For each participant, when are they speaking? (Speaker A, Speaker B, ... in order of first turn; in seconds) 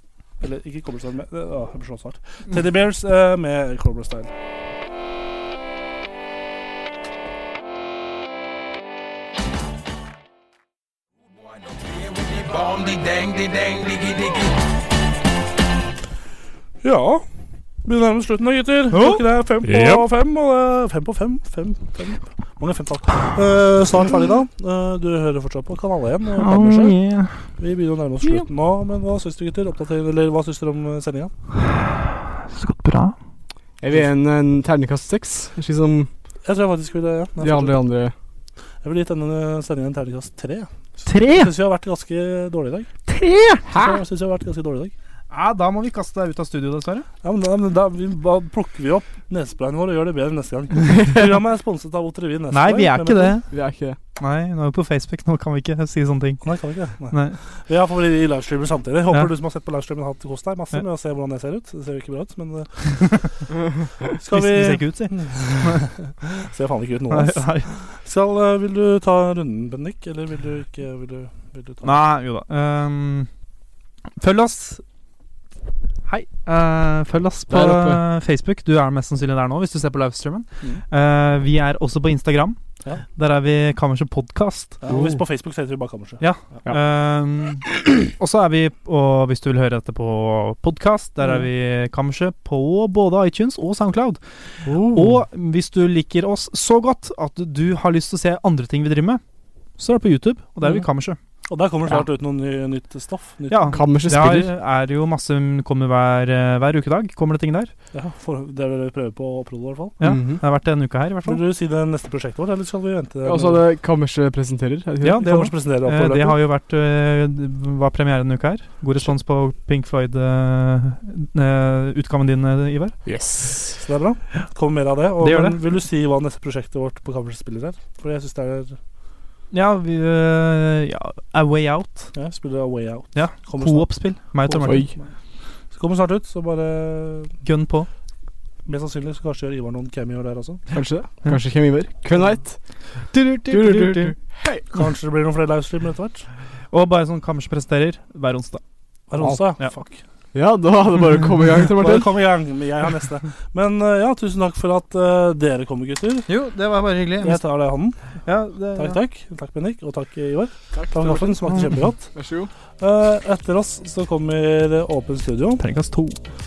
Speaker A: 0.4-4.3, 16.8-17.3, 17.8-27.0, 27.6-31.3, 36.5-37.8, 38.8-42.9, 43.7-44.9, 47.2-53.4, 56.4-63.2, 64.2-72.0, 84.8-86.2, 101.5-103.8, 107.9-110.0, 111.2-113.6, 115.2-116.4, 123.8-128.8, 132.1-135.1, 135.7-137.3, 138.7-140.7, 144.7-146.3, 149.1-150.0, 151.7-156.3, 157.2-158.0, 158.8-162.1, 162.8-165.6
Speaker B: 18.9-19.2, 26.4-27.4, 32.5-33.1, 41.1-41.5, 43.1-43.7, 45.3-47.1, 52.5-53.5, 54.2-56.5, 57.1-57.4, 62.9-63.5, 64.3-65.8, 67.1-67.7, 71.8-73.3, 74.2-74.8, 76.0-82.6, 83.2-85.2, 86.2-99.2, 99.8-101.2, 103.5-107.7, 110.0-111.4, 115.0-123.0, 125.2-125.6, 129.5-132.1, 133.2-134.9, 137.4-137.9, 143.1-144.2, 146.7-148.6, 149.2-149.7, 156.3-157.4, 158.3-159.0, 161.5-161.9, 165.6-166.2
Speaker C: 33.8-36.1, 37.4-38.1, 50.9-51.3, 53.5-54.0, 77.5-78.0, 94.7-95.2, 103.7-104.5, 110.0-110.4, 113.2-115.2, 123.1-123.8, 134.7-134.9, 140.7-142.6, 143.5-144.7, 150.3-152.1, 160.7-161.5, 162.1-162.5